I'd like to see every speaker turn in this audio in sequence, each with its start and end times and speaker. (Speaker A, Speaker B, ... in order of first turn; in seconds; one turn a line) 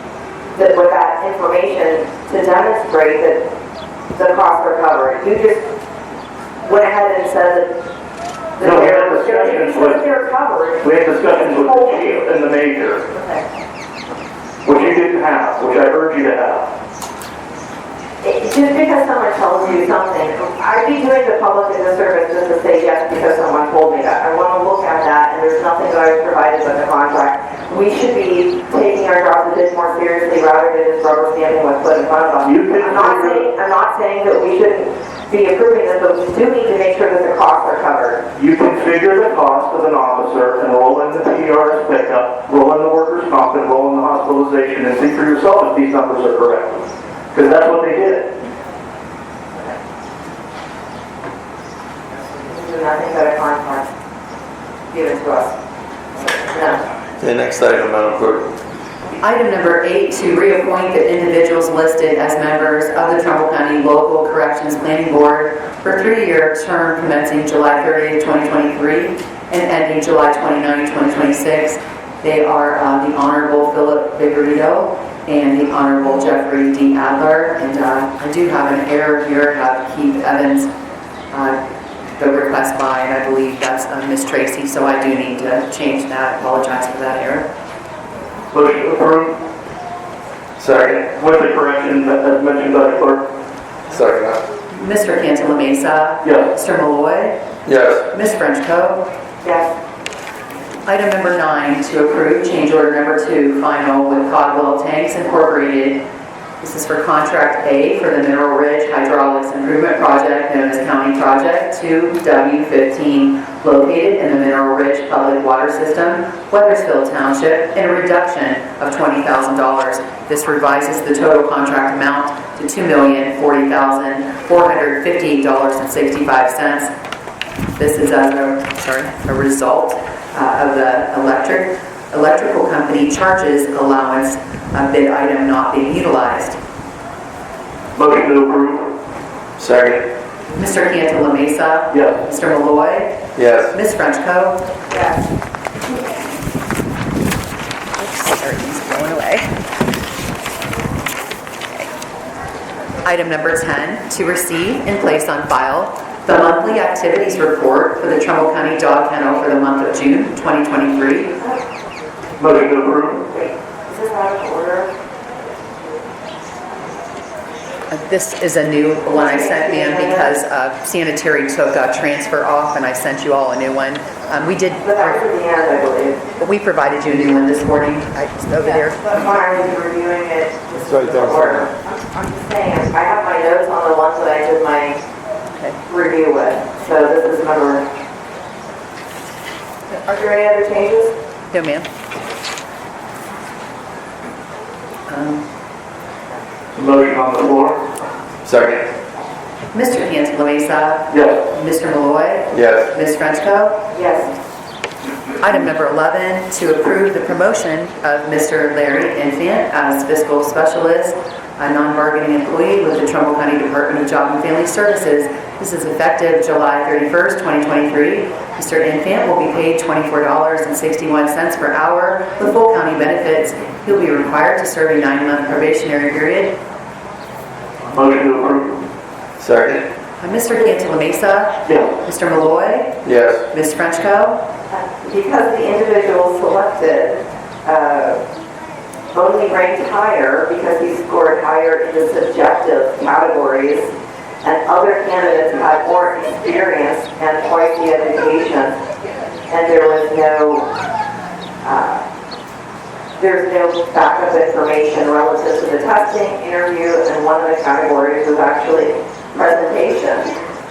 Speaker A: 0.5-3.5
Speaker A: 4.1-5.7
Speaker A: 6.6-7.7
Speaker A: 8.6-12.2
Speaker B: 8.6-10.0
Speaker B: 10.8-13.0
Speaker A: 13.2-13.4
Speaker B: 14.6-16.7
Speaker A: 18.2-38.2
Speaker B: 32.4-33.4
Speaker B: 38.4-48.3
Speaker A: 52.4-53.9
Speaker A: 54.9-55.5
Speaker A: 56.2-56.8
Speaker C: 57.2-58.5
Speaker D: 59.2-80.7
Speaker D: 81.3-81.6
Speaker D: 82.1-87.5
Speaker B: 88.5-89.4
Speaker C: 90.6-91.0
Speaker B: 90.7-93.2
Speaker C: 93.9-94.4
Speaker D: 94.7-97.4
Speaker B: 96.2-96.5
Speaker C: 97.7-98.0
Speaker D: 98.1-99.0
Speaker A: 99.4-99.7
Speaker D: 100.8-106.0
Speaker D: 106.6-126.9
Speaker D: 127.8-136.6
Speaker B: 137.9-138.9
Speaker C: 139.6-140.0
Speaker D: 140.5-144.7
Speaker B: 141.9-142.2
Speaker C: 143.3-143.7
Speaker A: 144.9-145.2
Speaker D: 148.0-149.5
Speaker D: 153.0-161.4
Speaker B: 162.4-163.2
Speaker A: 163.3-164.9
Speaker D: 167.9-175.2
Speaker A: 169.1-170.3
Speaker A: 174.8-176.2
Speaker D: 176.4-179.0
Speaker A: 178.6-185.0
Speaker C: 180.8-181.6
Speaker D: 185.5-185.8
Speaker A: 185.9-187.8
Speaker A: 189.9-191.1
Speaker D: 191.5-191.9
Speaker D: 195.1-195.4
Speaker B: 196.7-197.8
Speaker C: 198.4-198.8
Speaker D: 199.7-203.9
Speaker B: 201.1-201.4
Speaker C: 202.5-202.9
Speaker A: 203.9-204.3
Speaker D: 205.4-226.6
Speaker B: 227.9-228.8
Speaker C: 229.4-229.8
Speaker D: 230.2-234.4
Speaker B: 231.7-231.9
Speaker C: 233.0-233.4
Speaker A: 234.7-238.2
Speaker A: 239.1-248.7
Speaker A: 249.5-250.7
Speaker A: 251.6-252.0
Speaker A: 253.2-260.3